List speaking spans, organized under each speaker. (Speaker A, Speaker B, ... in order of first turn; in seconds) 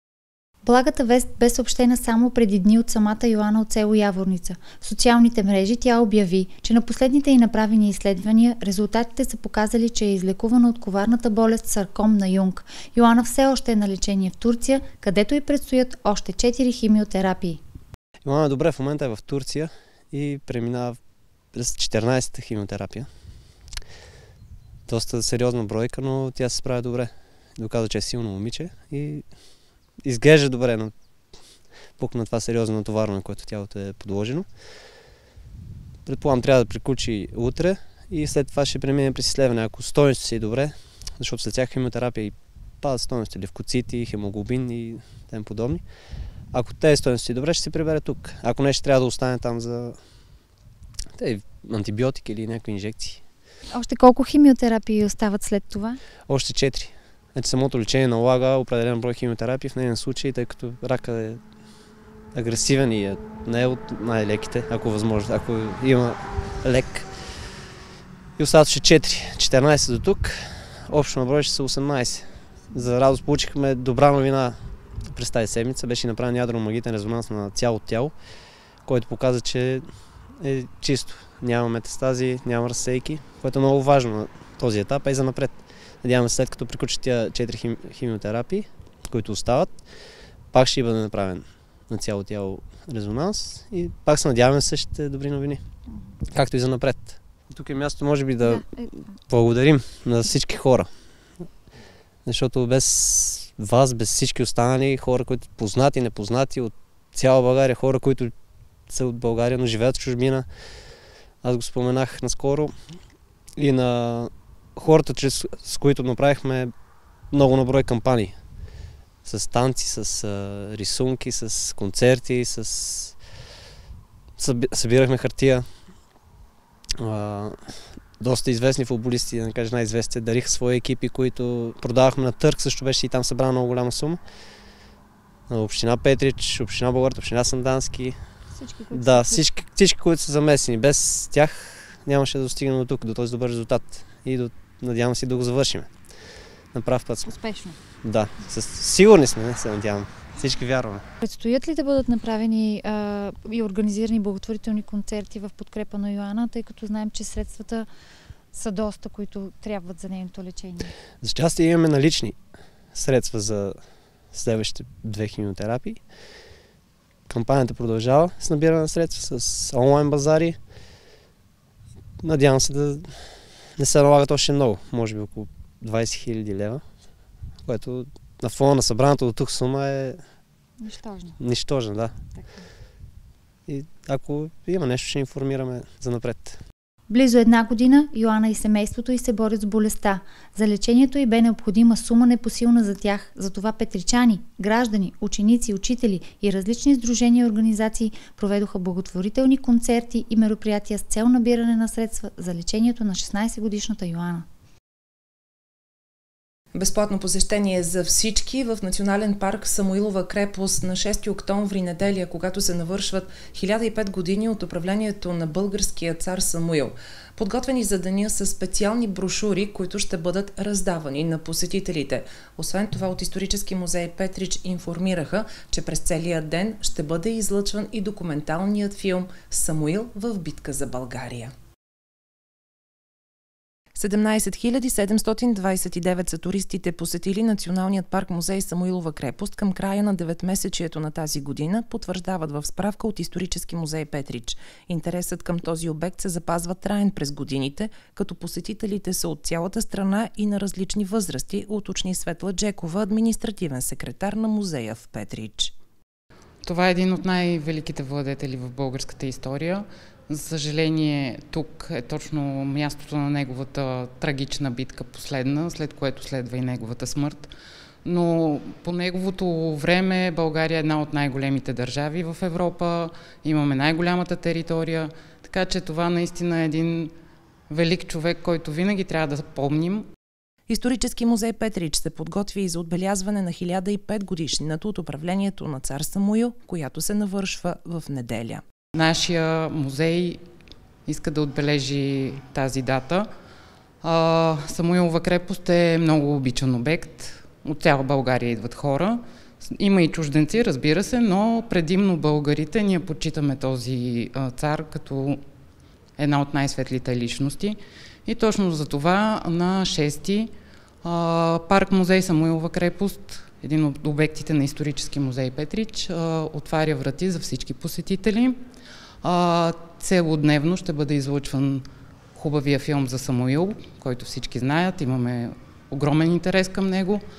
Speaker A: 0.6-17.6, 53.7-56.0, 138.5-139.4, 147.3-147.8, 151.2-157.9, 158.5-160.9, 180.8-181.4, 182.3-182.6, 187.1-204.4
Speaker B: 18.2-21.0, 21.5-23.1, 24.9-29.2, 30.0-30.9, 32.0-34.5, 36.0-45.8, 46.5-50.0, 51.1-53.2, 56.3-61.4, 62.3-67.1, 68.4-78.1, 78.8-79.9, 80.4-89.7, 90.5-95.6, 96.3-100.9, 102.2-108.3, 108.9-110.5, 111.4-112.7, 113.5-116.7, 117.3-118.3, 119.2-123.2, 124.4-125.7, 127.0-134.2, 135.5-138.2, 138.9-145.9, 146.7-147.3, 148.0-151.0, 161.2-162.3, 162.9-163.8, 164.3-166.0, 167.3-170.6, 172.2-176.8, 177.6-180.2, 181.4-182.2, 183.7-186.6
Speaker C: 206.7-231.5, 233.9-255.7, 280.7-288.6
Speaker D: 256.6-267.5, 268.0-277.1, 277.7-280.1, 288.9-290.4, 291.1-293.3, 294.0-305.4, 306.1-310.5, 311.0-318.6, 319.2-327.2